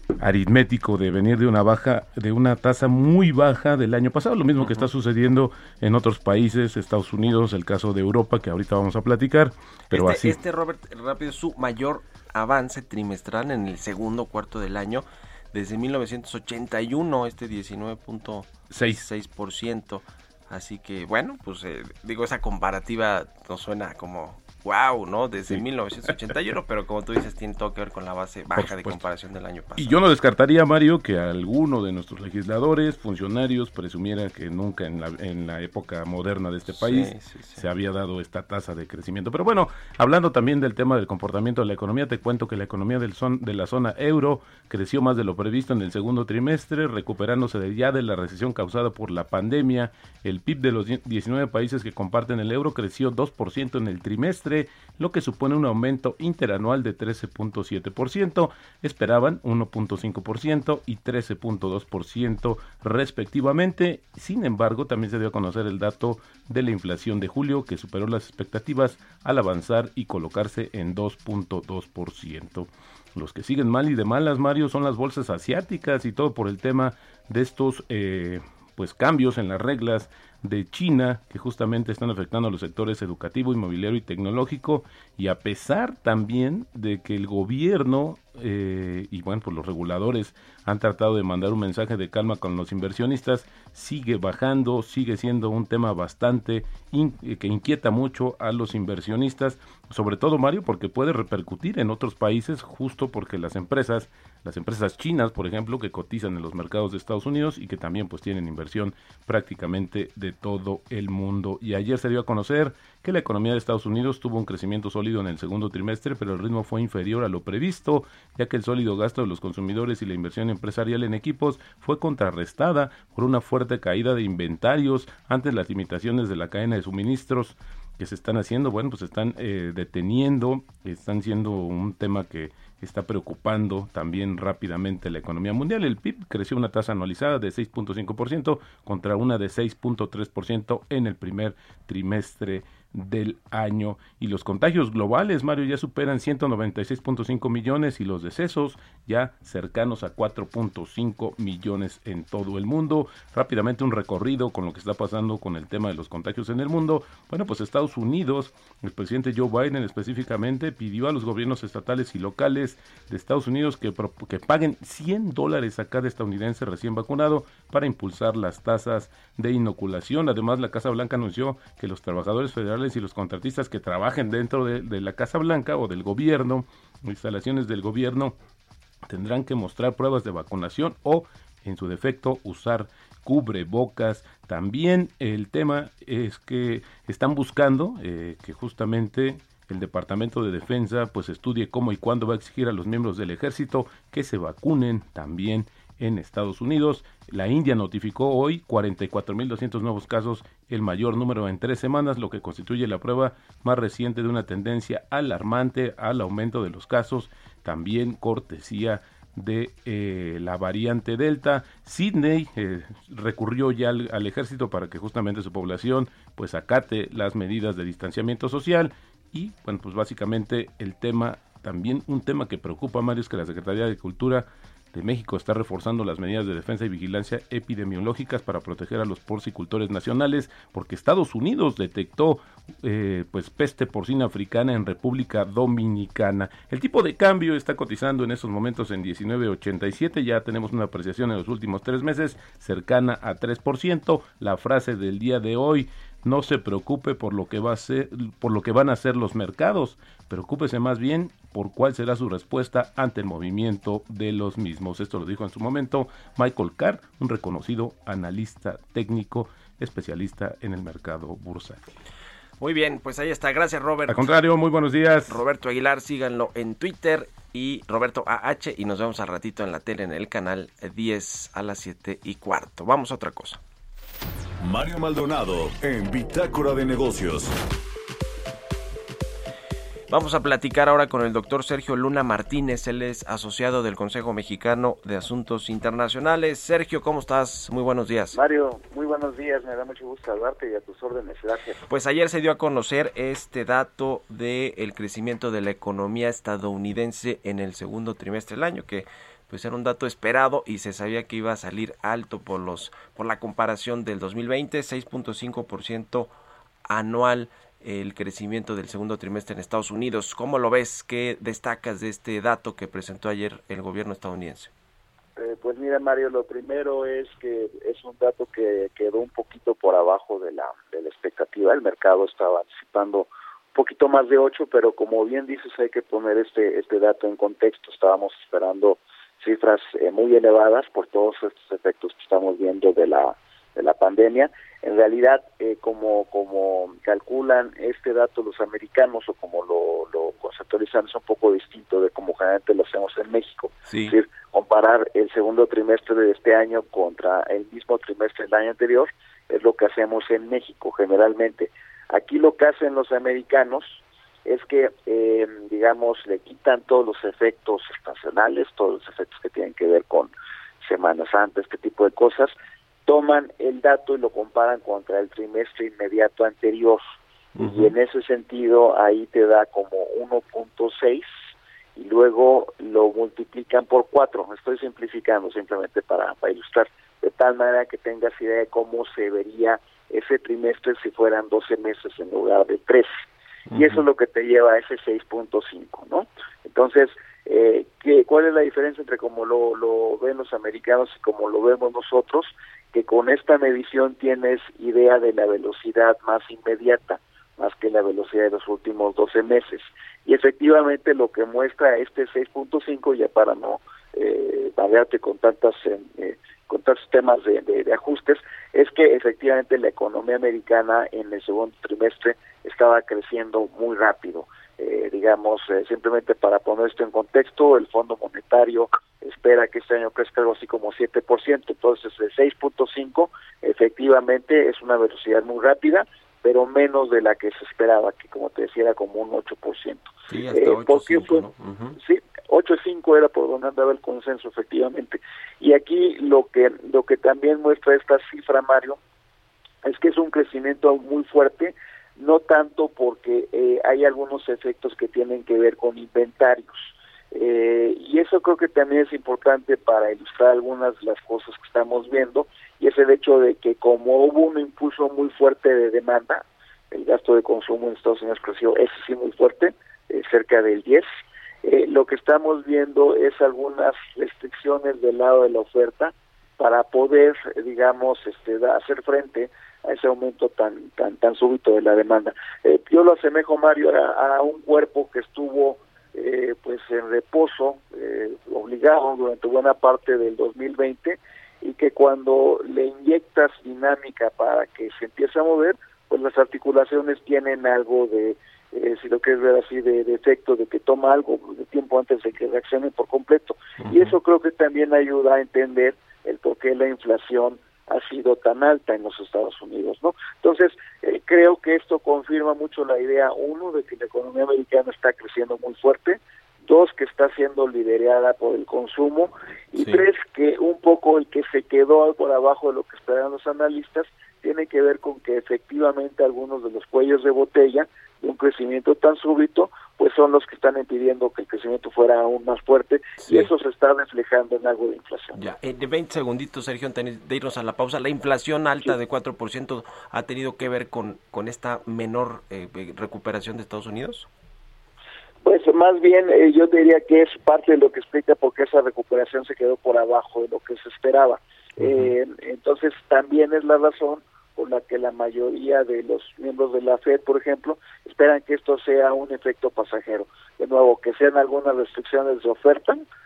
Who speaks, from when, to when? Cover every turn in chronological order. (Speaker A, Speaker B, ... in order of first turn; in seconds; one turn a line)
Speaker A: 0.2-10.4
Speaker B: 4.6-4.9
Speaker B: 9.9-30.0
Speaker A: 18.7-19.0
Speaker A: 28.6-29.0
Speaker A: 29.8-178.3
Speaker B: 36.7-37.6
Speaker A: 179.1-261.9
Speaker B: 262.6-264.4
Speaker A: 264.1-265.4
Speaker B: 265.3-273.6
Speaker C: 274.6-277.6
Speaker B: 280.1-288.4
Speaker D: 288.3-291.8
Speaker B: 291.9-306.3
Speaker B: 306.9-314.7
Speaker D: 315.4-362.5
Speaker B: 343.9-344.1
Speaker D: 363.1-367.0
Speaker B: 367.6-367.9
Speaker D: 367.6-371.3
Speaker D: 371.9-383.2
Speaker B: 383.7-384.0
Speaker D: 383.7-439.0
Speaker B: 430.3-432.0
Speaker D: 439.8-461.1
Speaker D: 461.6-525.4
Speaker B: 493.8-494.1
Speaker B: 523.2-523.5
Speaker B: 525.3-534.3
Speaker D: 535.4-553.0
Speaker B: 541.8-542.1